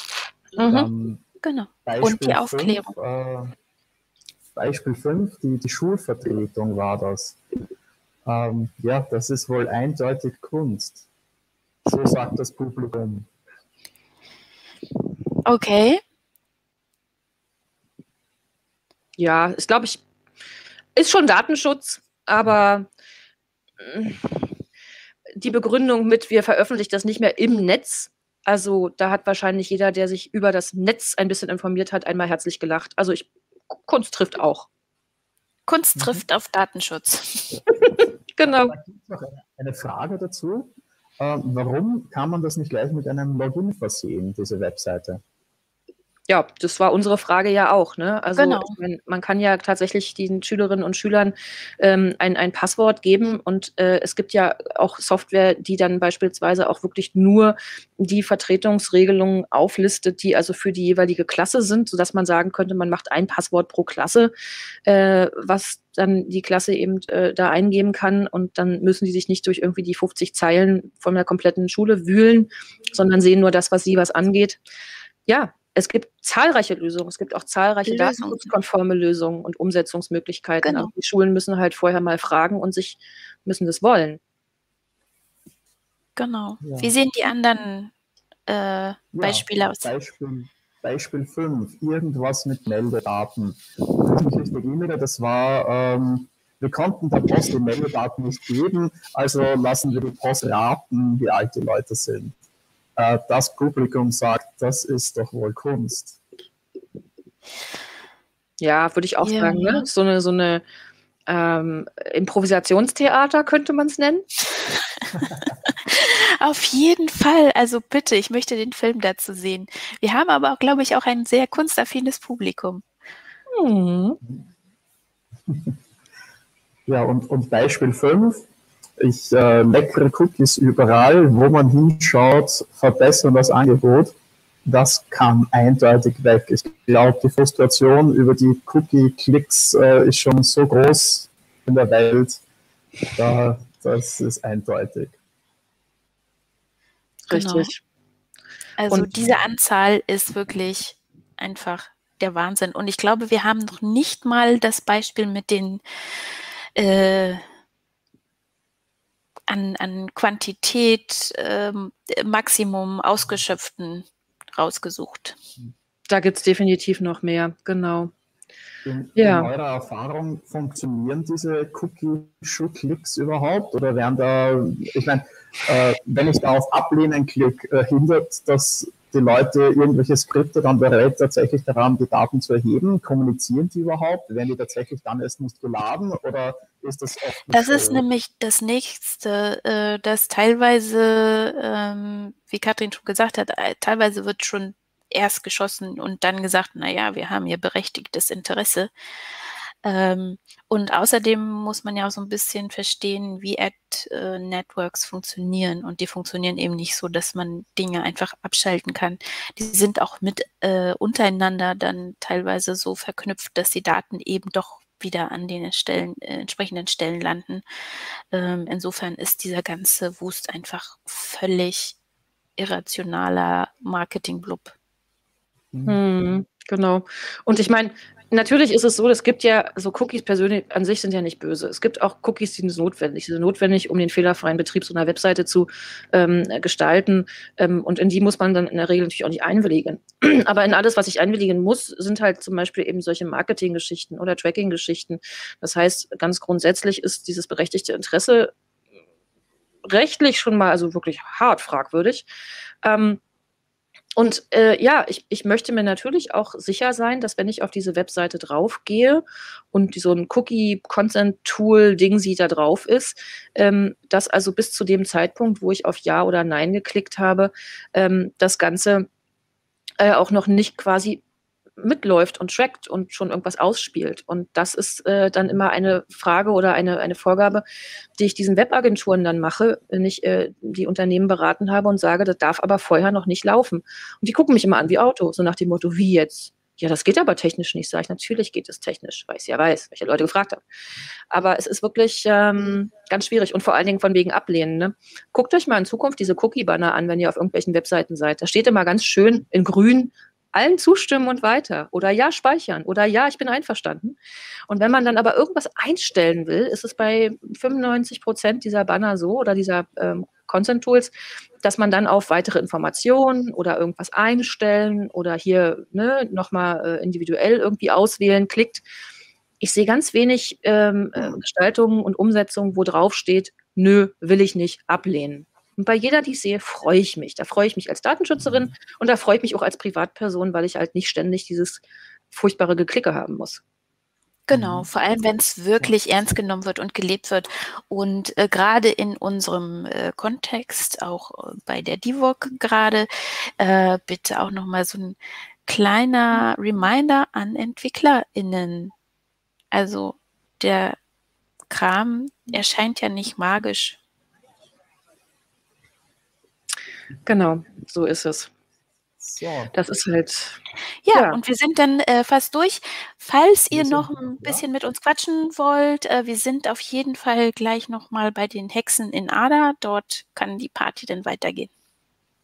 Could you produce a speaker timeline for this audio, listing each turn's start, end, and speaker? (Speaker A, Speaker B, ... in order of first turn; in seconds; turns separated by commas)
Speaker A: 0.6-0.8, Speaker B: 0.6-0.9, Speaker C: 0.7-1.2, Speaker A: 1.4-2.9, Speaker C: 1.8-3.5, Speaker C: 4.5-7.4, Speaker C: 8.2-11.0, Speaker C: 11.8-13.3, Speaker A: 15.4-16.0, Speaker B: 19.2-20.0, Speaker B: 20.9-22.9, Speaker B: 23.8-24.5, Speaker B: 25.4-34.7, Speaker A: 35.7-37.6, Speaker C: 36.0-36.2, Speaker B: 38.0-38.7, Speaker C: 38.4-45.2, Speaker B: 46.3-64.3, Speaker A: 48.4-48.8, Speaker B: 64.8-74.6, Speaker B: 75.3-84.2, Speaker A: 77.9-78.5, Speaker A: 80.6-80.9, Speaker A: 86.2-87.9, Speaker C: 86.6-86.9, Speaker A: 88.5-89.9, Speaker C: 89.1-102.3, Speaker C: 103.0-106.2, Speaker B: 108.6-110.6, Speaker A: 109.2-109.8, Speaker B: 111.3-114.2, Speaker A: 115.8-122.8, Speaker B: 123.5-124.2, Speaker C: 125.5-125.8, Speaker C: 126.9-128.4, Speaker C: 129.0-134.1, Speaker C: 134.6-142.4, Speaker C: 143.1-145.2, Speaker B: 147.3-147.8, Speaker A: 147.3-147.7, Speaker A: 148.8-155.8, Speaker A: 156.8-157.4, Speaker A: 159.5-165.4, Speaker B: 166.1-168.1, Speaker C: 168.8-188.0, Speaker B: 169.2-169.5, Speaker A: 187.5-198.9, Speaker A: 199.8-217.6, Speaker A: 218.3-221.9, Speaker A: 222.6-224.7, Speaker C: 225.7-226.0, Speaker B: 225.8-248.5, Speaker B: 249.8-252.3, Speaker B: 252.8-253.2, Speaker B: 254.2-269.1, Speaker B: 270.0-271.2, Speaker B: 271.8-277.6, Speaker B: 278.2-290.6, Speaker B: 291.3-304.2, Speaker B: 304.7-318.8, Speaker B: 319.6-333.6, Speaker A: 334.5-343.1, Speaker C: 334.5-334.9, Speaker A: 343.6-348.9, Speaker A: 349.7-351.0, Speaker A: 351.7-354.0, Speaker B: 357.2-358.5, Speaker C: 359.2-359.7, Speaker B: 359.7-360.6, Speaker A: 361.1-371.7, Speaker B: 361.1-361.4, Speaker C: 363.7-364.6